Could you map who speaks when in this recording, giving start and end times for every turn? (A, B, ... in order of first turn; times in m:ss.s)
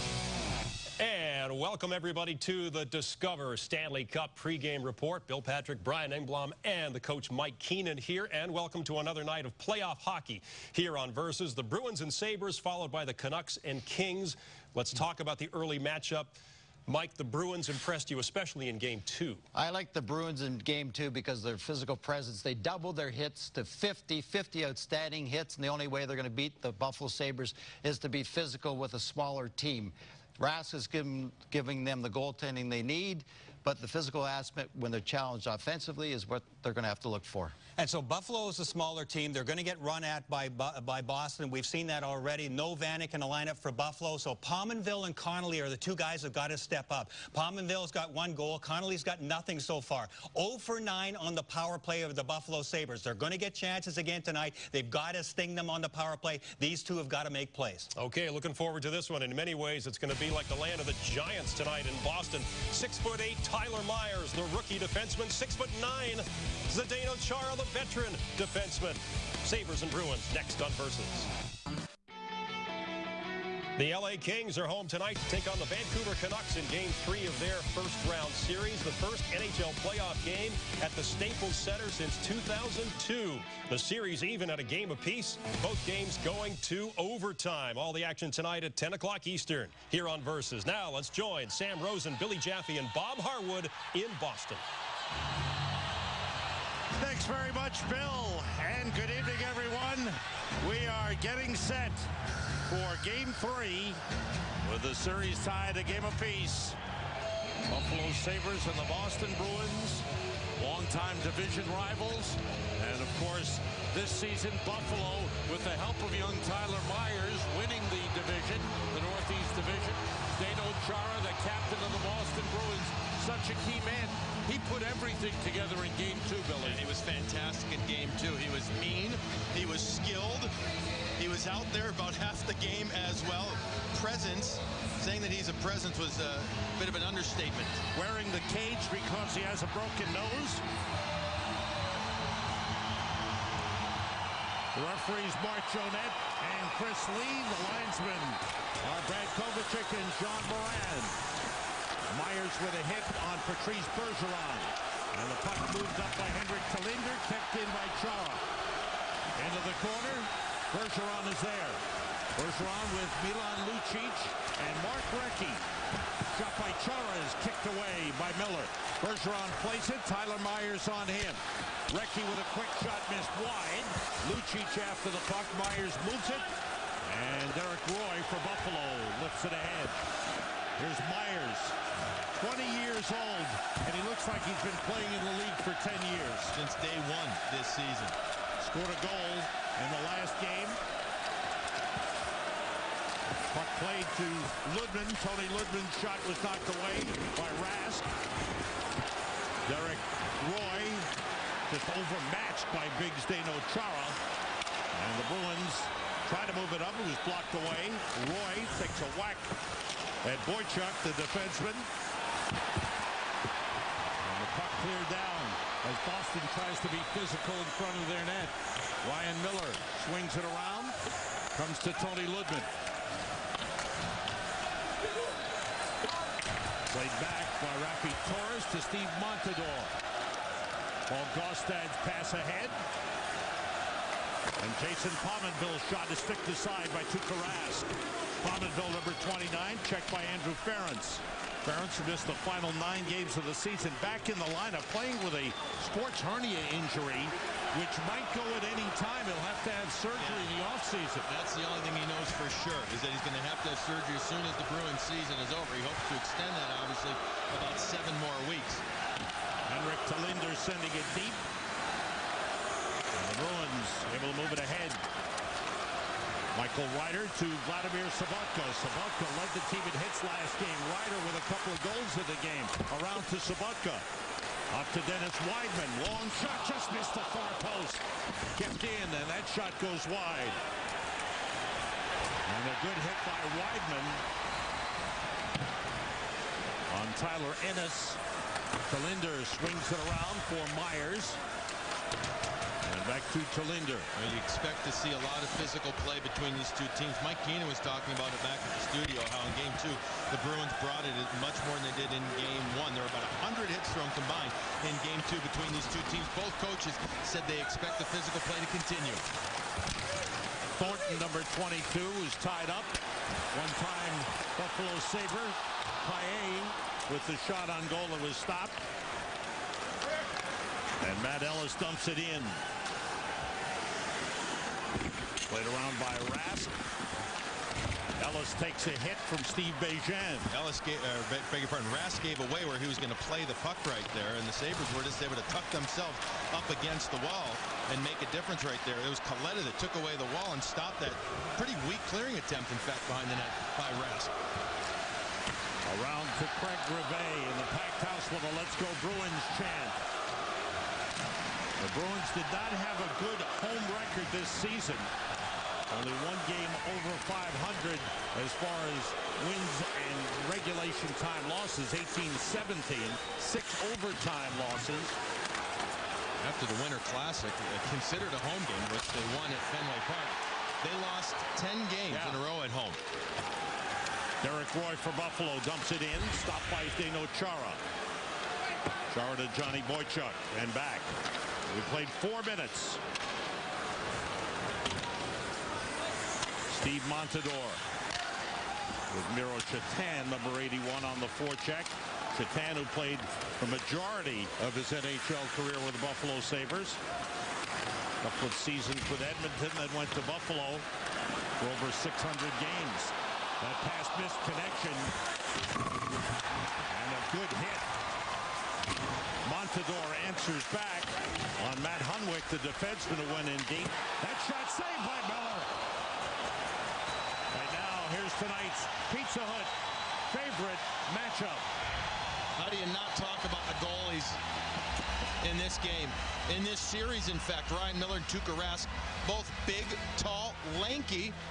0:01.0-0:19.4 A
0:19.6-0:37.6 B
0:37.8-0:57.9 C
0:58.0-1:11.3 A
1:13.8-1:34.6 A
1:37.0-1:42.1 D
1:42.7-1:44.0 D
1:44.6-1:46.8 D
1:47.7-1:50.0 D
1:50.6-2:06.9 D
2:06.6-2:10.5 E
2:11.2-2:17.8 E
2:17.9-2:20.6 D
2:24.8-2:31.2 D
2:32.1-2:38.4 D
2:39.4-2:41.8 D
2:42.4-2:45.6 D
2:46.3-2:56.5 D
2:57.0-3:00.0 D
3:00.8-3:01.8 D
3:02.4-3:06.6 D
3:06.5-3:08.2 E
3:08.6-3:10.8 D
3:13.5-3:18.1 D
3:19.7-3:21.1 D
3:21.7-3:24.2 D
3:24.9-3:29.5 D
3:30.2-3:31.9 D
3:34.2-3:41.0 D
3:41.6-3:42.7 D
3:46.9-3:49.9 D
3:51.1-3:52.8 D
3:54.6-3:57.9 D
3:58.4-4:11.3 D
4:10.2-4:10.5 E
4:11.3-4:18.8 E
4:19.7-4:21.4 D
4:23.1-4:25.0 D
4:26.5-4:34.0 D
4:34.7-4:38.0 D
4:38.6-4:40.6 D
4:42.5-4:44.2 D
4:46.9-4:48.2 D
4:48.9-4:51.4 D
4:52.8-4:54.1 D
4:54.2-5:09.3 E
5:10.8-5:13.0 D
5:13.5-5:18.8 D
5:21.0-5:22.6 D
5:25.5-5:26.7 D
5:28.2-5:30.5 D
5:30.5-5:44.3 E
5:45.9-5:50.0 D
5:51.8-5:55.1 D
5:55.9-6:05.2 D
6:06.4-6:13.0 E
6:12.1-6:12.4 D
6:14.4-6:17.8 D
6:19.1-6:21.1 D
6:21.7-6:23.0 D
6:26.7-6:27.8 D
6:29.1-6:37.0 D
6:38.2-6:40.8 D
6:41.6-6:45.1 D
6:46.9-6:47.8 D
6:49.4-6:55.7 D
6:57.5-6:59.7 D
7:00.3-7:01.6 D
7:02.6-7:04.4 E
7:05.4-7:11.4 E